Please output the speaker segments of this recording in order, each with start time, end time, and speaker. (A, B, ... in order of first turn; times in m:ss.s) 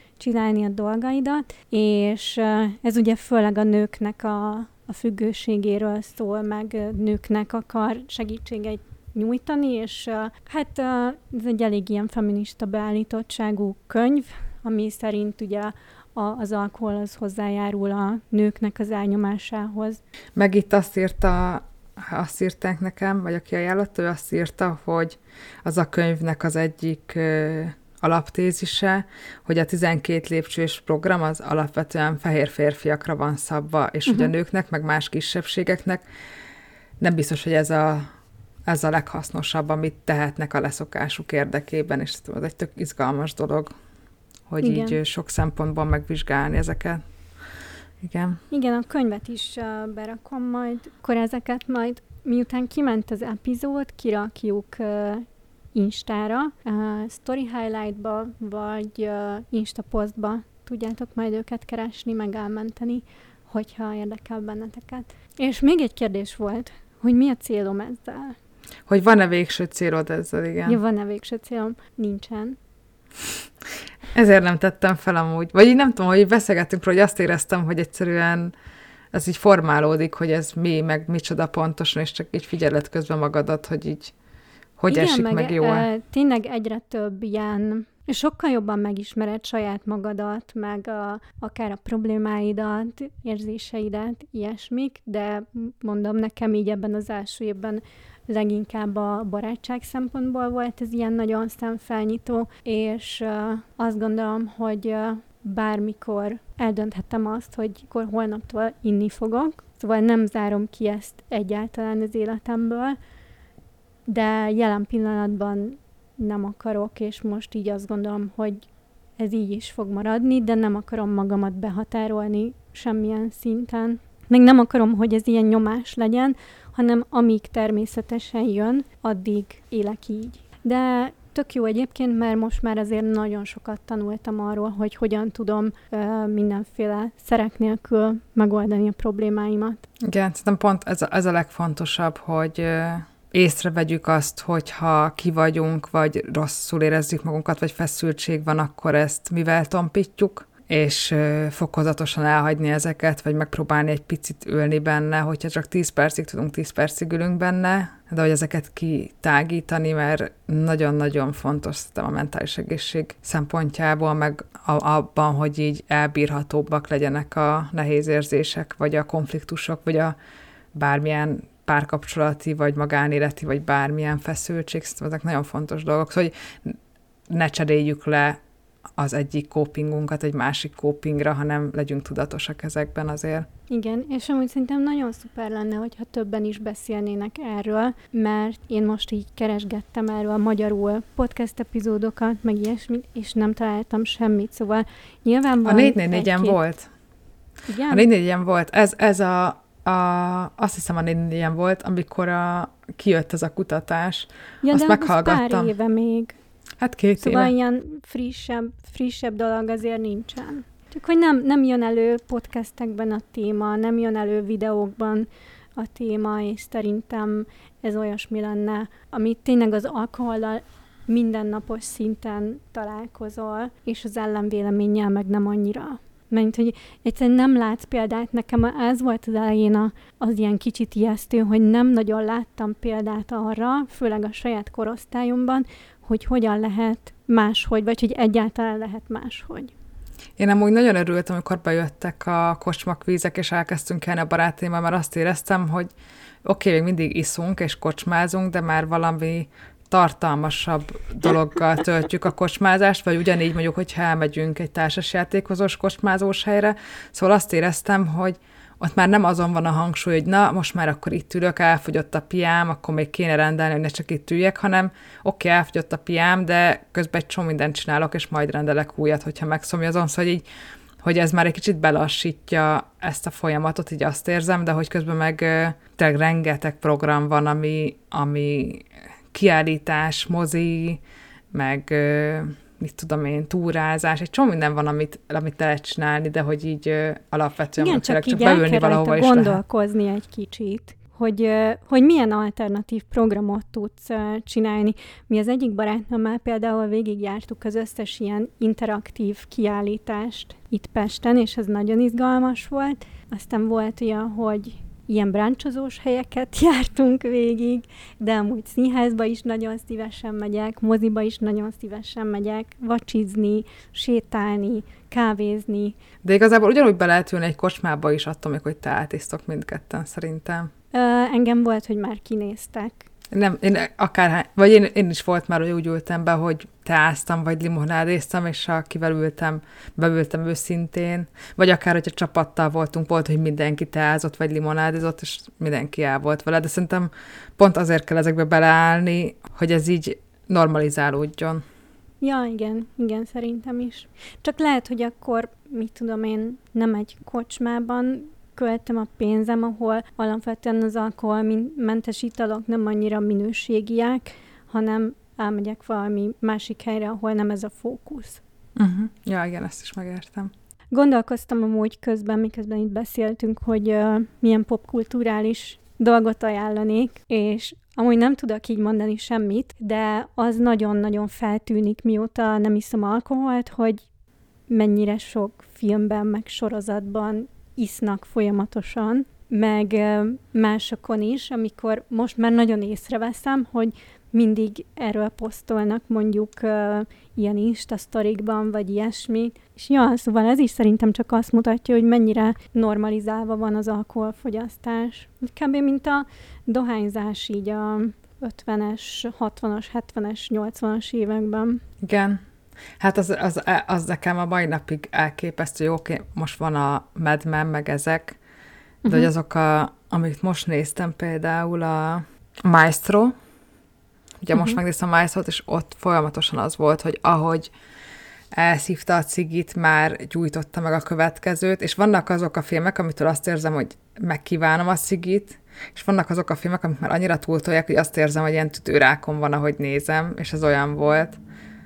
0:00.2-0:20.0 A
0:20.4-0:36.0 B
0:37.0-0:38.1 B
0:38.7-0:43.7 B
0:44.5-0:47.0 B
0:44.6-0:45.0 A
0:48.0-0:48.4 B
0:48.5-1:08.4 A
1:08.9-1:10.8 B
1:10.7-1:12.6 A
1:14.1-1:18.5 B
1:19.1-1:24.1 B
1:24.8-1:25.9 B
1:24.9-1:53.0 A
1:54.1-1:58.6 A
1:59.2-2:19.8 A
2:20.0-2:50.2 B
2:50.7-2:56.8 B
2:57.3-2:58.4 B
2:59.0-3:03.5 B
3:03.7-3:16.6 A
3:15.6-3:16.9 B
3:17.7-3:18.1 A
3:17.9-3:25.7 B
3:24.6-3:26.4 A
3:26.8-3:27.5 B
3:27.2-3:59.7 A
4:00.4-4:05.9 B
4:06.4-4:30.4 B
4:31.0-4:41.0 B
4:41.5-4:49.6 B
4:47.8-5:16.0 A
5:16.2-5:20.7 B
5:20.9-5:23.1 A
5:23.3-5:41.6 B
5:42.2-5:58.4 A
5:58.8-6:00.5 B
6:00.9-6:14.0 A
6:14.7-6:41.8 A
6:42.0-6:42.4 B
6:43.0-6:48.4 B
6:49.1-6:53.3 B
6:54.4-6:57.7 B
6:54.5-6:54.8 A
6:58.5-7:11.4 B